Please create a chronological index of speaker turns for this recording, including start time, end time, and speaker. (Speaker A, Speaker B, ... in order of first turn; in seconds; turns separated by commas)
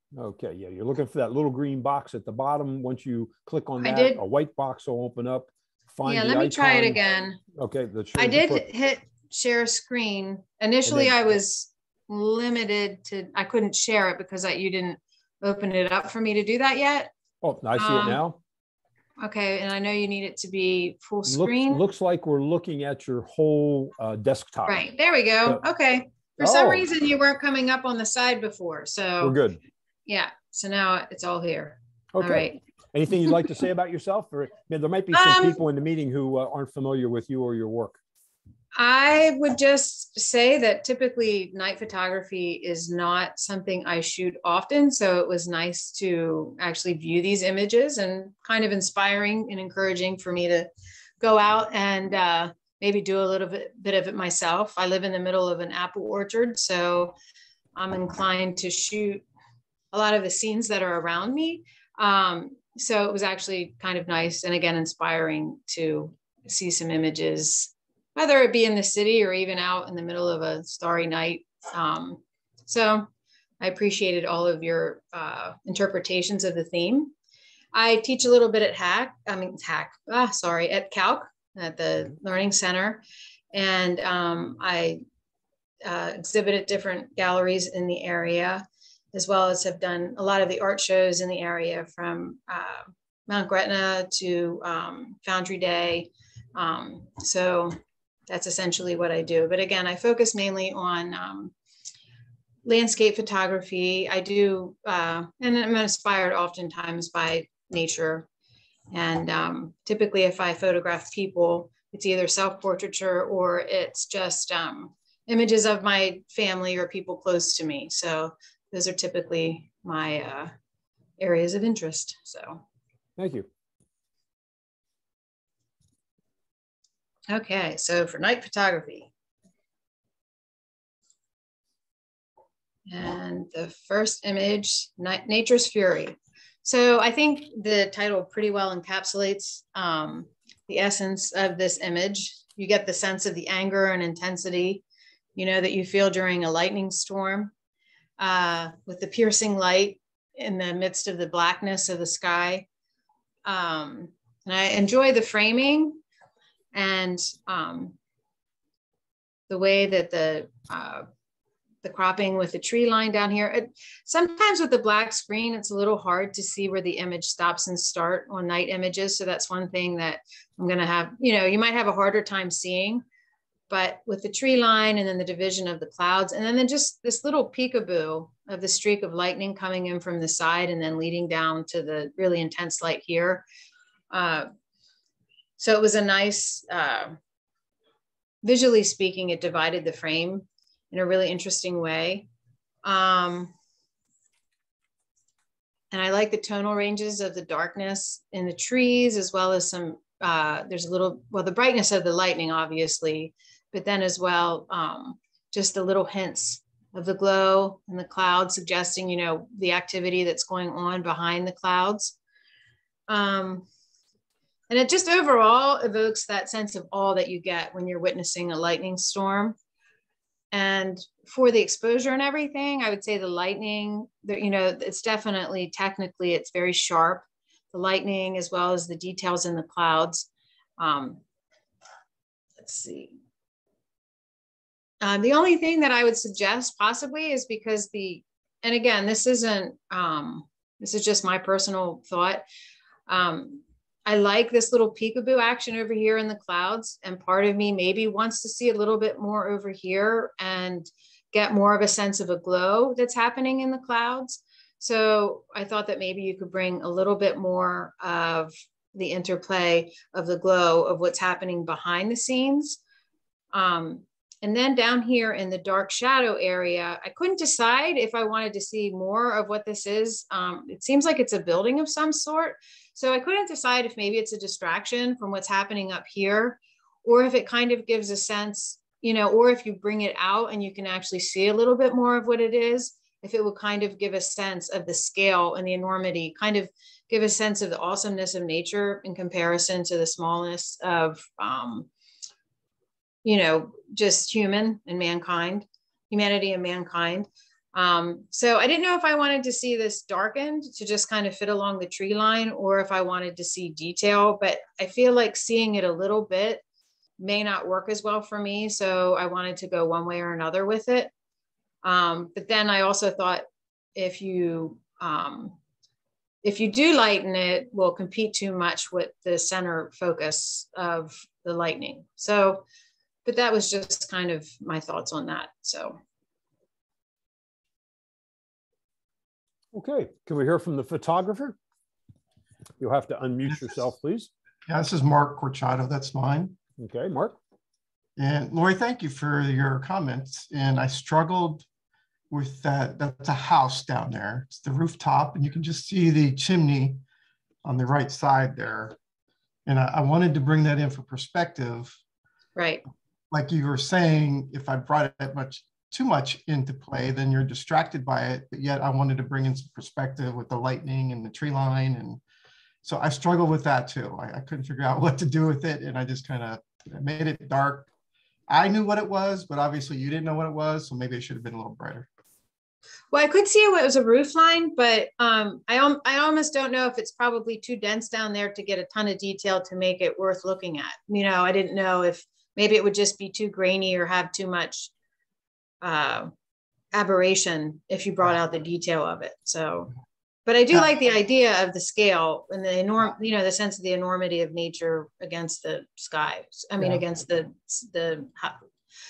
Speaker A: 0.1-7.0, Speaker B: 3.8-4.2, Speaker B: 6.1-7.4, Speaker A: 7.5-8.6, Speaker B: 8.2-17.1, Speaker A: 10.9-11.1, Speaker A: 17.4-18.4, Speaker B: 17.8-18.2, Speaker B: 19.2-21.8, Speaker A: 21.3-24.8, Speaker B: 24.7-29.4, Speaker A: 26.4-26.9, Speaker A: 29.2-29.6, Speaker B: 30.1-32.6, Speaker A: 32.1-38.0, Speaker B: 35.1-35.6, Speaker B: 38.8-50.7, Speaker B: 51.2-57.1, Speaker B: 57.8-59.2, Speaker B: 59.9-73.1, Speaker B: 73.6-77.1, Speaker B: 77.7-85.0, Speaker B: 85.8-97.8, Speaker B: 98.3-101.5, Speaker B: 102.6-108.3, Speaker B: 108.9-120.5, Speaker B: 121.2-122.6, Speaker A: 123.2-123.5, Speaker B: 127.3-129.1, Speaker B: 132.9-144.8, Speaker B: 145.4-147.5, Speaker B: 148.2-152.7, Speaker B: 153.4-156.0, Speaker B: 156.7-157.9, Speaker B: 159.5-161.1, Speaker B: 161.8-173.0, Speaker B: 173.7-183.4, Speaker B: 184.1-184.5, Speaker B: 185.6-187.2, Speaker B: 188.4-192.3, Speaker B: 192.8-193.5, Speaker B: 195.9-212.1, Speaker B: 213.1-213.7, Speaker B: 214.7-219.6, Speaker B: 220.5-230.3, Speaker B: 230.8-231.2, Speaker B: 232.6-233.1, Speaker B: 235.0-242.4, Speaker B: 243.1-262.8, Speaker B: 263.5-291.9, Speaker B: 293.2-306.6, Speaker B: 307.2-311.1, Speaker B: 311.8-315.6, Speaker B: 316.4-322.6, Speaker B: 323.2-326.0, Speaker A: 329.7-331.6, Speaker A: 332.8-334.3, Speaker C: 334.7-336.6, Speaker A: 336.8-337.4, Speaker C: 338.2-341.6, Speaker C: 342.3-347.0, Speaker C: 347.6-349.0, Speaker C: 349.6-352.0, Speaker B: 352.6-352.8, Speaker C: 353.3-362.2, Speaker C: 362.8-367.9, Speaker C: 368.5-372.1, Speaker B: 373.1-384.9, Speaker B: 385.8-386.3, Speaker B: 386.9-389.9, Speaker B: 390.5-398.6